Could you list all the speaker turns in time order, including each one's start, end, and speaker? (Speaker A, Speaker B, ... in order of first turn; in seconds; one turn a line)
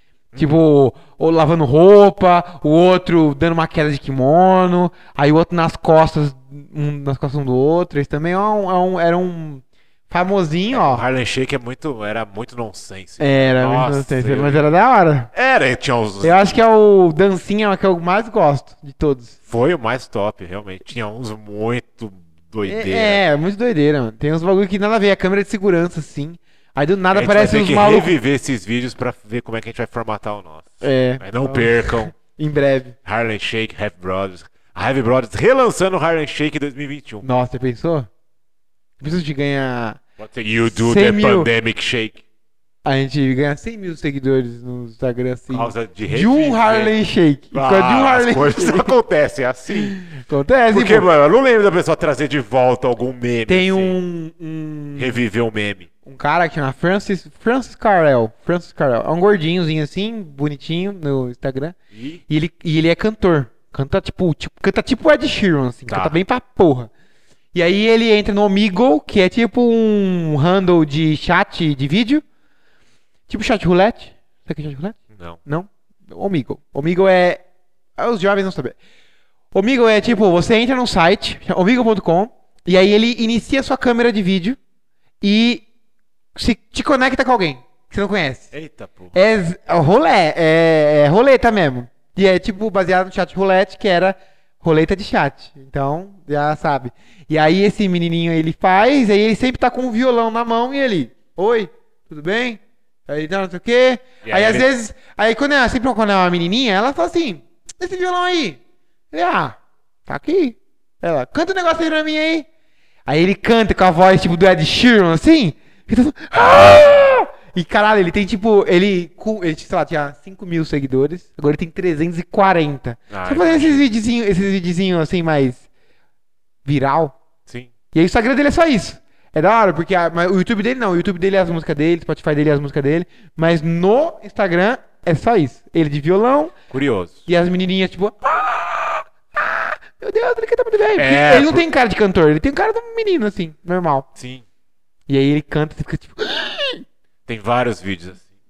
Speaker A: 0.4-11.1
Speaker B: 10.7-14.7
Speaker A: 13.2-15.3
Speaker B: 15.3-16.6
Speaker A: 16.2-19.4
Speaker B: 19.5-23.2
Speaker A: 22.7-28.2
Speaker B: 27.1-32.1
Speaker A: 30.8-33.0
Speaker B: 33.0-37.2
Speaker A: 37.2-38.1
Speaker A: 39.0-40.0
Speaker B: 40.2-42.2
Speaker A: 40.7-41.5
Speaker A: 42.9-48.9
Speaker B: 45.5-47.0
Speaker B: 47.5-50.0
Speaker A: 49.8-51.1
Speaker B: 50.7-54.0
Speaker A: 53.5-55.2
Speaker B: 55.0-55.9
Speaker A: 56.0-61.8
Speaker B: 61.9-62.2
Speaker A: 62.3-66.9
Speaker B: 65.9-66.2
Speaker A: 67.5-72.2
Speaker A: 73.3-77.4
Speaker B: 75.1-75.4
Speaker A: 78.0-78.8
Speaker A: 79.5-84.6
Speaker A: 85.2-85.7
Speaker A: 86.3-88.5
Speaker B: 88.5-89.1
Speaker A: 89.1-108.6
Speaker B: 104.2-104.7
Speaker A: 109.1-112.5
Speaker A: 113.1-125.7
Speaker B: 116.3-117.1
Speaker B: 123.1-123.8
Speaker A: 126.7-127.2
Speaker A: 127.9-136.6
Speaker B: 136.7-137.2
Speaker A: 137.3-144.1
Speaker B: 141.0-141.6
Speaker B: 144.2-144.4
Speaker A: 145.1-146.8
Speaker B: 147.3-148.2